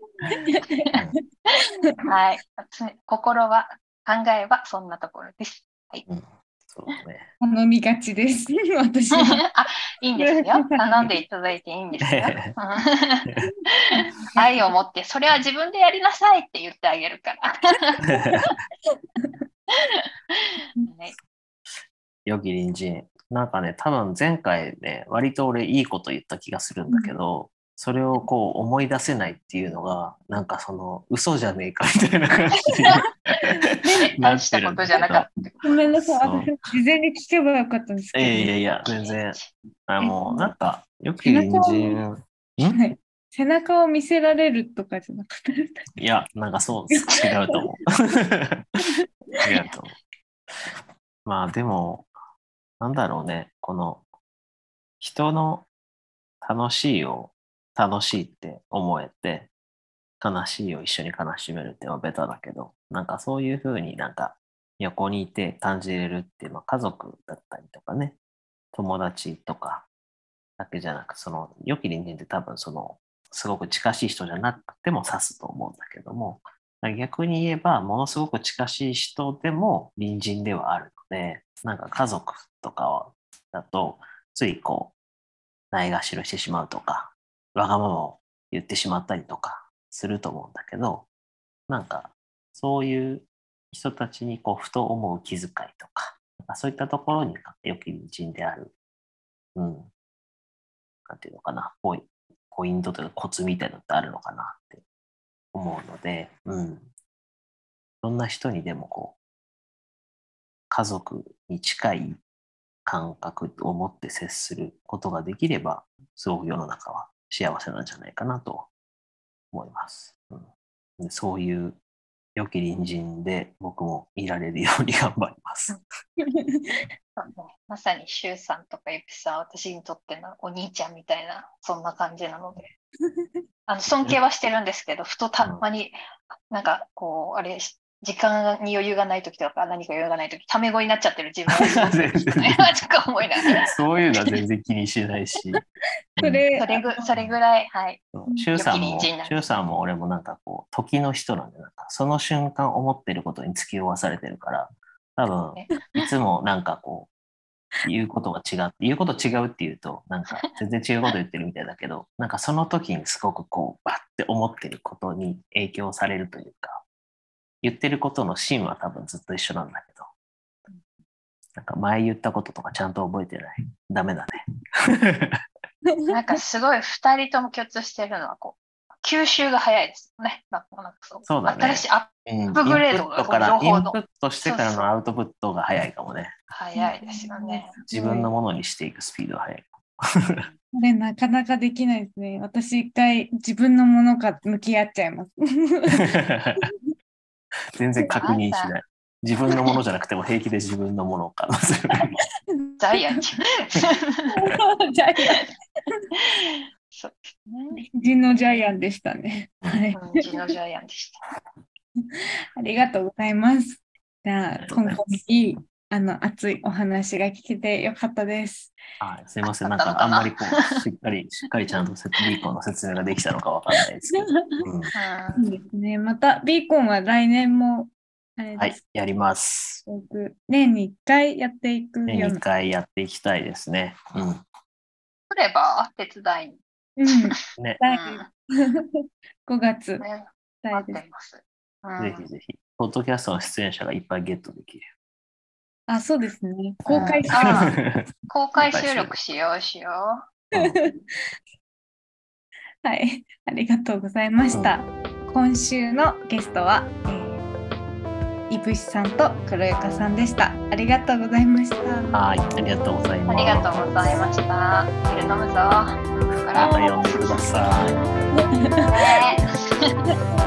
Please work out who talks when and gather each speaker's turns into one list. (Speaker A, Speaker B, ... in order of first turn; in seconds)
Speaker A: 0.3-0.9, 2.1-6.0, 9.1-18.0, 20.4-21.1, 33.8-35.5, 38.5-39.5, 127.2-132.7, 133.7-136.0, 136.5-143.8, 146.6-148.0, 148.6-149.6, 176.1-184.9, 186.5-188.3, 198.1-198.7, 202.8-204.3, 206.9-207.8, 209.9-211.2, 219.6-220.8, 224.9-225.4, 235.3-236.6, 237.1-238.3, 240.0-242.2, 246.9-247.8, 248.3-250.2, 257.1-257.4, 263.3-267.4, 268.9-269.9
Speaker B: 0.4-0.9, 7.4-9.4, 10.2-11.2, 13.9-14.7, 26.9-27.1, 35.6-38.5, 41.2-42.0, 42.6-45.9, 46.9-47.2, 126.2-126.6, 146.2-146.9, 148.3-148.5, 186.8-188.1, 190.7-196.1, 204.3-205.4, 207.8-210.1, 212.6-218.8, 225.4-228.8, 229.8-232.4, 237.0-238.3, 239.5-240.1, 240.6-241.1, 245.9-247.7, 250.6-251.0, 252.8-257.1, 258.5-262.1, 266.6-266.9
Speaker C: 6.1-7.3, 12.1-12.5, 18.1-18.5, 22.3-33.0, 34.2-35.3, 36.0-36.6, 38.1-42.8, 46.0-48.4, 49.4-50.0, 51.3-52.1, 52.8-54.0, 55.0-55.7, 56.4-59.5, 60.2-68.2, 68.7-69.9, 70.6-84.9, 85.7-91.1, 91.7-98.7, 99.6-99.9, 101.1-104.8, 105.5-106.9, 108.0-109.2, 110.7-112.2, 112.9-118.7, 119.5-121.8, 122.3-125.8, 141.5-142.8, 143.7-145.6, 146.2-146.4, 148.1-157.1, 157.8-166.8, 167.6-170.1, 171.6-174.4, 174.9-175.4, 181.2-186.3, 187.9-190.5, 196.0-196.6, 197.8-202.1, 214.6-215.0, 219.0-224.9, 228.6-229.8, 232.1-234.4, 242.0-244.9, 246.8-249.2, 250.5-250.8, 262.1-264.1, 266.5-268.0